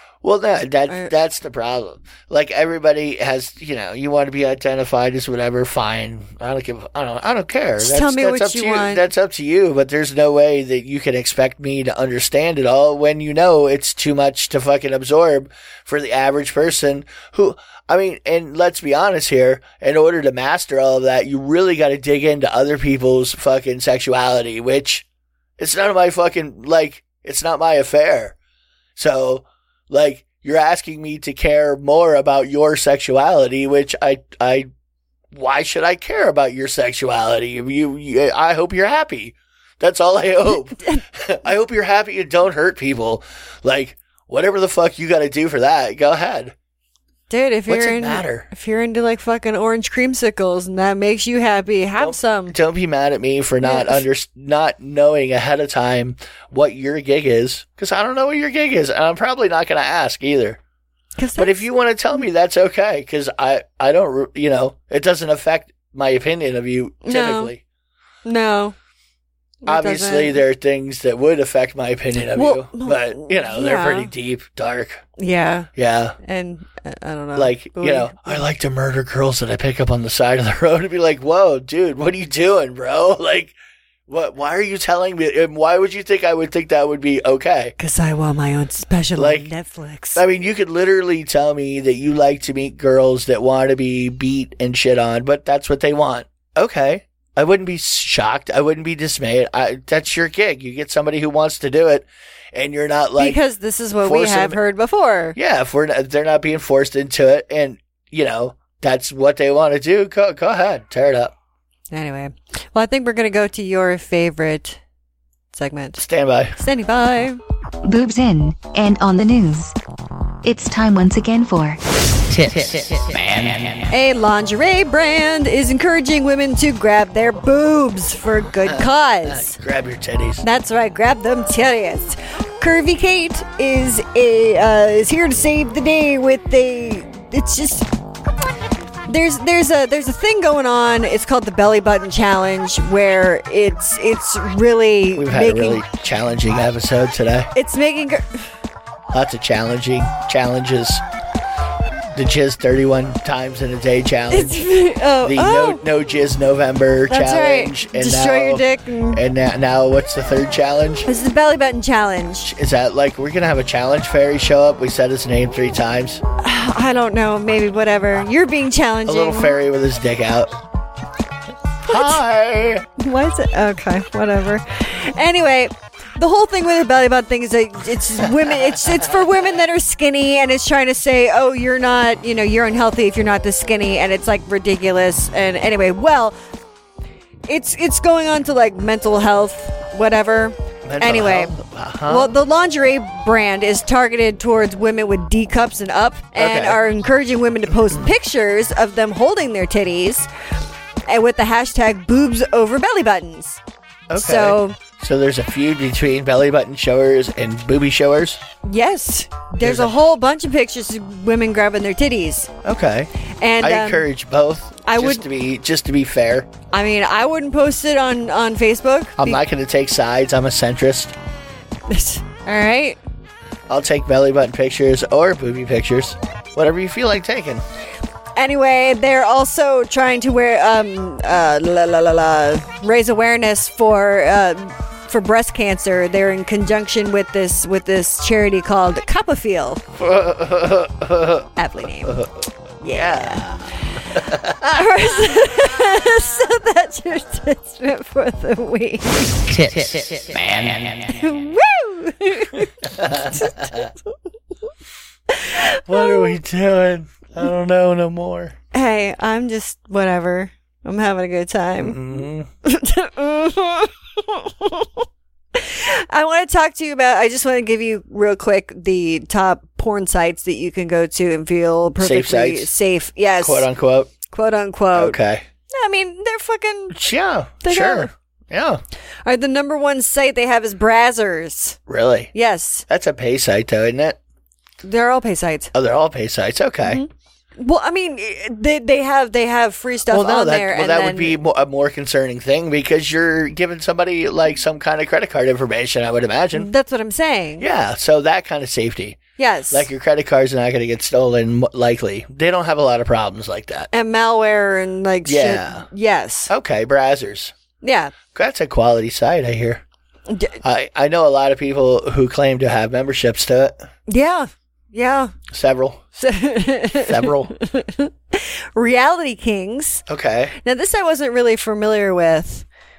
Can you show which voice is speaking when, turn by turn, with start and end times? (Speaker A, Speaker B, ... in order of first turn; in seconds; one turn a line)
Speaker A: 0.2-25.1
Speaker B: 7.8-9.1
Speaker A: 25.6-28.4
Speaker A: 29.0-34.7
Speaker A: 35.3-46.5
Speaker B: 40.8-41.0
Speaker B: 47.3-52.6
Speaker A: 47.7-48.5
Speaker A: 52.0-60.6
Speaker B: 53.6-54.0
Speaker B: 61.2-61.7
Speaker A: 61.4-67.6
Speaker B: 67.0-67.5
Speaker B: 68.2-68.8
Speaker B: 69.7-70.4
Speaker A: 69.7-75.0
Speaker B: 72.3-74.1
Speaker B: 75.2-75.7
Speaker A: 75.8-76.2
Speaker B: 76.2-78.4
Speaker A: 77.3-83.6
Speaker A: 84.1-87.7
Speaker B: 87.8-90.2
Speaker A: 89.2-89.5
Speaker A: 90.2-103.4
Speaker B: 103.2-105.4
Speaker A: 104.0-104.6
Speaker A: 105.4-111.3
Speaker B: 111.9-114.8
Speaker B: 115.5-116.0
Speaker A: 116.0-116.6
Speaker B: 116.6-117.4
Speaker C: 117.8-119.8
Speaker C: 120.4-121.8
Speaker C: 122.3-123.0
Speaker A: 122.5-123.9
Speaker B: 123.9-129.6
Speaker A: 128.7-130.4
Speaker B: 130.4-137.9
Speaker B: 139.1-145.8
Speaker A: 145.2-147.5
Speaker B: 147.5-148.4
Speaker A: 149.1-151.0
Speaker A: 152.1-154.6
Speaker B: 154.3-155.8
Speaker A: 155.2-161.1
Speaker B: 157.1-159.2
Speaker B: 161.1-162.5
Speaker A: 162.4-166.2
Speaker B: 166.4-169.6
Speaker A: 169.1-170.6
Speaker A: 171.8-172.9
Speaker B: 171.9-172.2
Speaker B: 173.0-186.3
Speaker A: 178.4-179.2
Speaker B: 187.5-191.6
Speaker A: 190.8-192.3
Speaker B: 192.1-200.3
Speaker A: 196.4-196.8
Speaker B: 201.1-203.6
Speaker A: 204.1-208.4
Speaker B: 204.2-204.8
Speaker B: 208.6-212.5
Speaker A: 209.6-210.0
Speaker A: 212.6-216.5
Speaker B: 213.4-214.1
Speaker B: 214.8-215.2
Speaker B: 216.7-219.4
Speaker A: 219.2-221.1
Speaker B: 221.9-223.0
Speaker A: 223.7-227.6
Speaker B: 228.4-239.8
Speaker A: 239.9-241.5
Speaker B: 241.6-242.2
Speaker A: 242.0-242.4
Speaker B: 242.8-243.5
Speaker A: 242.9-244.6
Speaker B: 244.6-249.4
Speaker A: 249.5-251.2
Speaker B: 251.1-254.2
Speaker A: 252.8-253.9
Speaker B: 255.3-256.4
Speaker A: 255.9-258.6
Speaker B: 258.7-262.0
Speaker A: 261.8-262.5
Speaker B: 262.6-265.0
Speaker B: 265.6-273.7
Speaker A: 272.0-272.7
Speaker A: 273.4-274.1
Speaker B: 274.3-277.0
Speaker A: 274.9-275.4
Speaker A: 276.9-278.8
Speaker B: 277.6-278.1
Speaker B: 279.2-281.8
Speaker A: 281.9-282.3
Speaker B: 282.3-282.9
Speaker A: 282.9-284.2
Speaker B: 284.8-285.7
Speaker A: 285.7-287.0
Speaker B: 286.8-291.4
Speaker A: 290.1-296.7
Speaker B: 296.6-297.7
Speaker A: 297.6-303.9
Speaker B: 299.4-299.9
Speaker B: 303.9-306.5
Speaker A: 305.3-305.9
Speaker A: 306.5-307.5
Speaker B: 307.8-308.1
Speaker A: 308.3-309.8
Speaker B: 310.3-310.6
Speaker A: 310.6-313.8
Speaker B: 314.1-315.4
Speaker A: 315.5-316.1
Speaker B: 316.2-320.0
Speaker A: 316.9-317.6
Speaker A: 320.1-320.6
Speaker B: 320.6-322.7